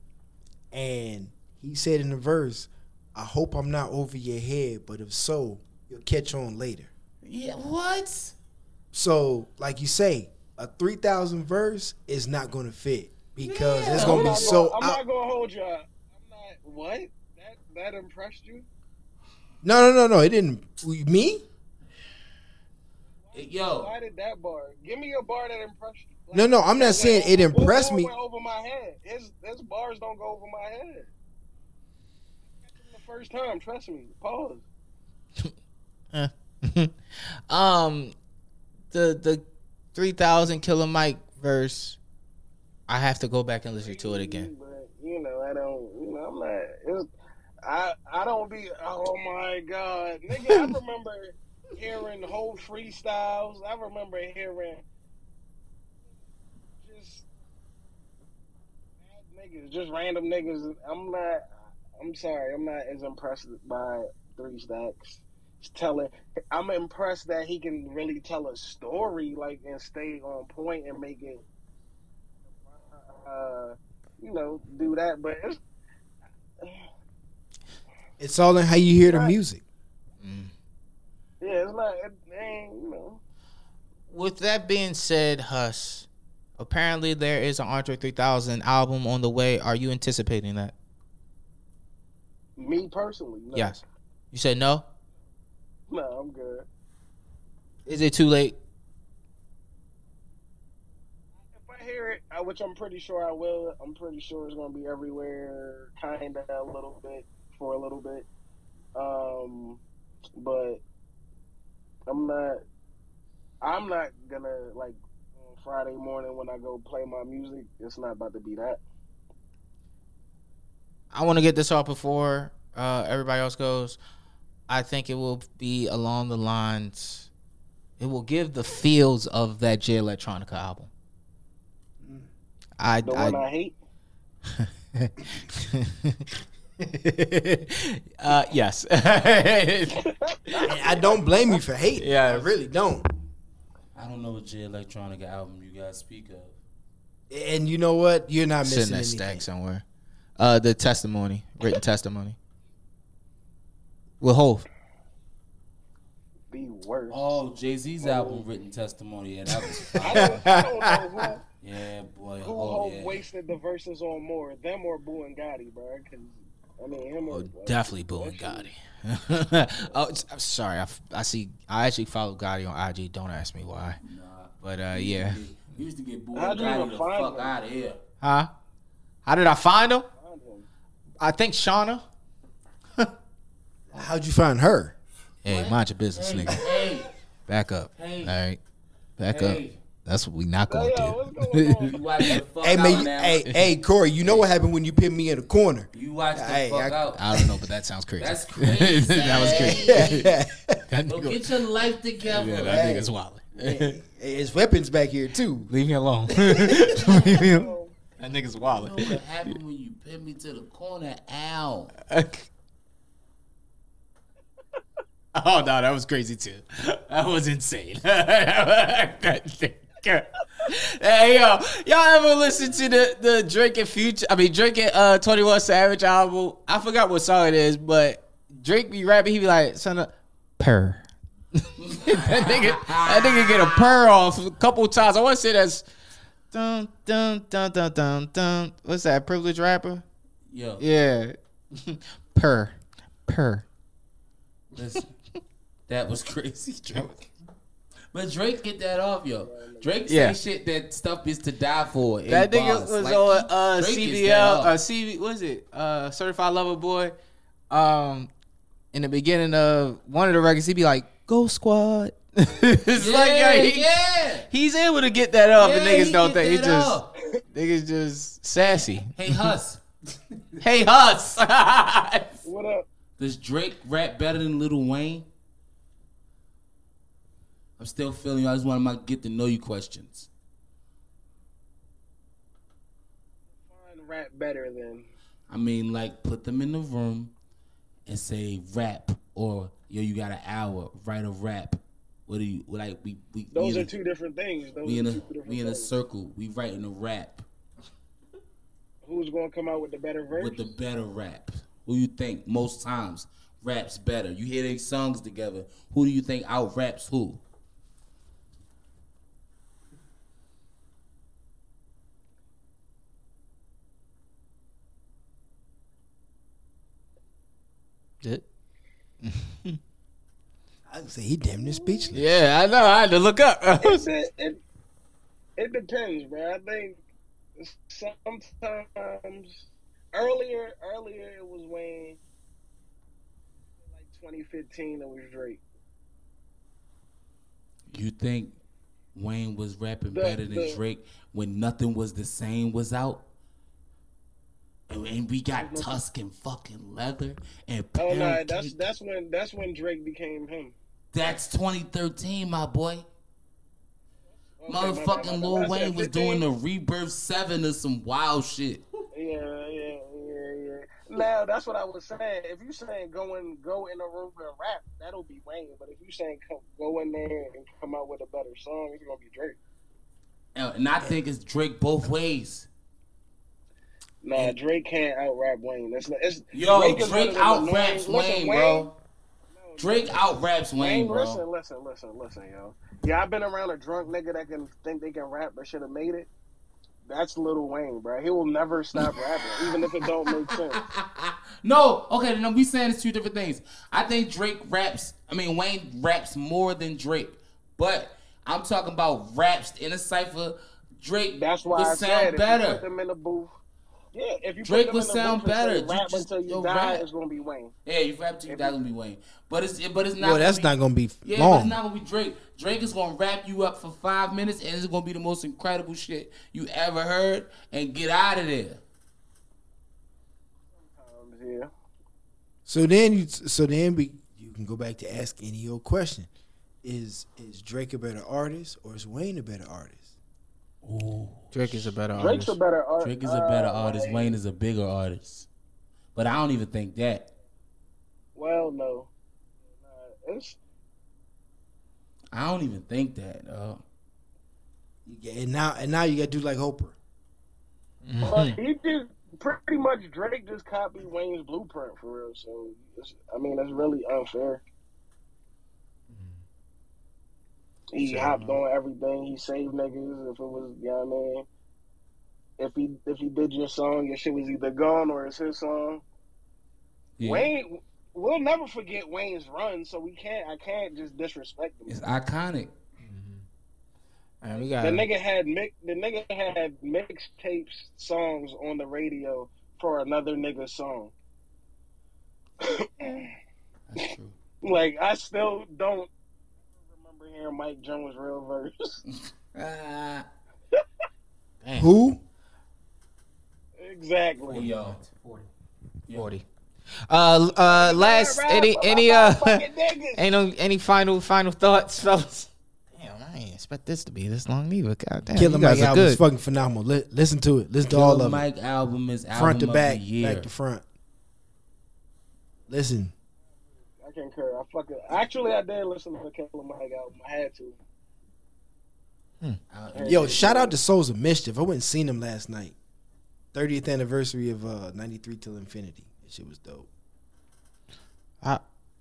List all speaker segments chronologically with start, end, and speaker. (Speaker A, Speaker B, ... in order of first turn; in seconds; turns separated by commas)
Speaker A: 0.7-6.9, Speaker B: 7.2-8.3, Speaker A: 8.9-15.0, Speaker B: 13.4-14.6, Speaker C: 13.9-18.7, Speaker A: 19.6-21.4, Speaker C: 23.2-31.1, Speaker B: 23.3-23.9, Speaker A: 26.3-28.1, Speaker C: 32.6-34.6, Speaker D: 36.1-38.1, Speaker D: 38.9-42.0, Speaker D: 42.9-44.5, Speaker C: 43.8-47.1, Speaker C: 47.6-54.8, Speaker C: 56.8-57.2, Speaker C: 59.0-61.4, Speaker C: 62.0-71.4, Speaker C: 72.6-75.6, Speaker C: 76.6-76.9, Speaker A: 78.2-79.6, Speaker C: 79.0-79.3, Speaker D: 80.2-80.5, Speaker C: 81.4-83.2, Speaker D: 84.1-86.1, Speaker D: 86.6-90.7, Speaker C: 92.6-93.8, Speaker D: 93.5-93.8, Speaker D: 94.3-94.8, Speaker C: 95.9-96.7, Speaker D: 97.8-98.6, Speaker C: 101.5-108.2, Speaker C: 108.9-109.8, Speaker C: 110.3-110.8, Speaker C: 112.1-112.6, Speaker C: 113.6-118.8, Speaker D: 121.1-124.0, Speaker D: 124.7-127.3, Speaker D: 128.0-130.9, Speaker D: 132.8-133.4, Speaker C: 133.0-133.8, Speaker D: 134.6-136.2, Speaker D: 136.8-140.0, Speaker C: 139.9-141.2, Speaker A: 140.6-143.0, Speaker D: 142.0-142.6, Speaker B: 143.9-146.6, Speaker A: 147.3-149.4, Speaker D: 148.6-149.8, Speaker D: 150.4-152.4, Speaker D: 154.2-154.7, Speaker C: 156.5-157.4, Speaker B: 157.1-160.4, Speaker C: 158.0-158.4, Speaker C: 160.0-161.4, Speaker D: 160.2-160.7, Speaker B: 161.6-163.2, Speaker C: 162.4-168.7, Speaker D: 167.2-174.0, Speaker B: 174.0-178.0, Speaker D: 174.6-175.4, Speaker C: 176.3-177.5, Speaker D: 178.2-178.5, Speaker D: 179.2-180.1, Speaker C: 180.2-180.7, Speaker D: 181.2-182.0, Speaker A: 183.9-184.9, Speaker D: 185.4-186.7, Speaker B: 185.4-187.1, Speaker D: 187.5-188.6, Speaker B: 187.9-188.4, Speaker D: 189.2-192.4, Speaker B: 189.3-189.8, Speaker C: 190.6-192.0, Speaker B: 191.9-193.5, Speaker A: 192.6-196.9, Speaker B: 195.9-197.5, Speaker D: 196.9-200.3, Speaker B: 198.2-200.3, Speaker A: 199.3-200.8, Speaker D: 200.9-201.4, Speaker B: 201.1-202.9, Speaker D: 202.2-204.0, Speaker A: 202.6-205.7, Speaker D: 205.7-209.5, Speaker A: 206.5-207.0, Speaker C: 207.1-207.9, Speaker B: 208.6-211.9, Speaker D: 212.1-212.4, Speaker D: 215.3-235.8, Speaker B: 231.8-233.9, Speaker D: 236.5-240.0, Speaker B: 240.5-240.8, Speaker D: 240.8-242.7, Speaker D: 243.3-243.6, Speaker B: 244.8-245.1, Speaker B: 245.9-247.2, Speaker B: 248.1-254.7, Speaker C: 249.4-249.9, Speaker D: 250.1-250.4, Speaker D: 252.3-257.1, Speaker D: 257.7-258.3, Speaker D: 258.9-263.9, Speaker B: 262.9-264.5, Speaker D: 264.5-267.0, Speaker B: 265.6-267.1, Speaker D: 267.5-269.5, Speaker B: 269.1-269.8, Speaker D: 270.6-272.4, Speaker C: 272.4-272.9, Speaker B: 273.2-275.3, Speaker B: 277.8-280.3, Speaker C: 283.6-285.1, Speaker B: 285.5-287.3, Speaker B: 288.1-293.9, Speaker C: 293.5-295.9, Speaker B: 294.8-297.4, Speaker C: 299.0-300.7, Speaker B: 300.3-307.4, Speaker D: 319.2-319.8, Speaker A: 320.9-322.2, Speaker C: 321.6-322.1, Speaker D: 322.1-324.1, Speaker C: 323.8-324.6, Speaker C: 325.6-327.0, Speaker C: 327.6-332.2, Speaker C: 333.9-335.6, Speaker B: 337.9-338.6, Speaker B: 339.1-343.2, Speaker C: 340.1-340.8, Speaker B: 344.9-348.7, Speaker C: 345.5-346.0, Speaker C: 348.0-351.3, Speaker B: 351.1-353.0, Speaker C: 354.6-356.4, Speaker B: 354.7-358.8, Speaker C: 359.1-369.6, Speaker B: 370.5-372.7, Speaker C: 374.2-378.9, Speaker B: 376.5-378.9, Speaker C: 379.5-386.3, Speaker B: 379.8-381.4, Speaker C: 387.1-390.8, Speaker B: 389.7-402.8, Speaker C: 401.4-403.5, Speaker C: 404.1-407.7, Speaker B: 404.6-407.0, Speaker B: 407.9-410.7, Speaker C: 408.5-408.8, Speaker A: 410.2-411.8, Speaker B: 411.2-418.8, Speaker C: 420.8-421.7, Speaker A: 422.6-426.3, Speaker A: 426.8-430.1, Speaker B: 430.8-431.9, Speaker D: 431.5-432.6, Speaker C: 432.1-434.4, Speaker B: 433.0-435.5, Speaker B: 436.1-437.3, Speaker C: 438.4-439.1, Speaker C: 439.7-440.6, Speaker B: 442.3-443.8, Speaker A: 445.1-446.9, Speaker D: 448.0-448.5, Speaker C: 448.2-454.6, Speaker C: 457.9-461.4, Speaker D: 458.0-458.6, Speaker C: 462.6-466.0, Speaker B: 467.2-467.5, Speaker C: 467.2-472.0, Speaker B: 471.9-472.7, Speaker D: 473.0-473.4, Speaker D: 474.4-475.0, Speaker C: 474.5-481.1, Speaker C: 482.6-483.3, Speaker B: 483.9-484.3, Speaker C: 484.6-486.1, Speaker C: 486.8-489.0, Speaker B: 489.5-490.2, Speaker D: 491.6-491.9, Speaker A: 491.7-492.2, Speaker C: 493.8-494.7, Speaker B: 494.5-495.0, Speaker D: 494.5-495.5, Speaker D: 496.1-496.4, Speaker D: 497.1-499.6, Speaker C: 497.6-500.2, Speaker D: 500.1-506.2, Speaker A: 505.3-508.4, Speaker B: 507.9-510.5, Speaker A: 509.3-510.8, Speaker A: 512.7-513.1, Speaker C: 514.0-517.8, Speaker B: 519.7-520.6, Speaker C: 519.9-520.8, Speaker A: 520.0-522.7, Speaker A: 523.5-526.9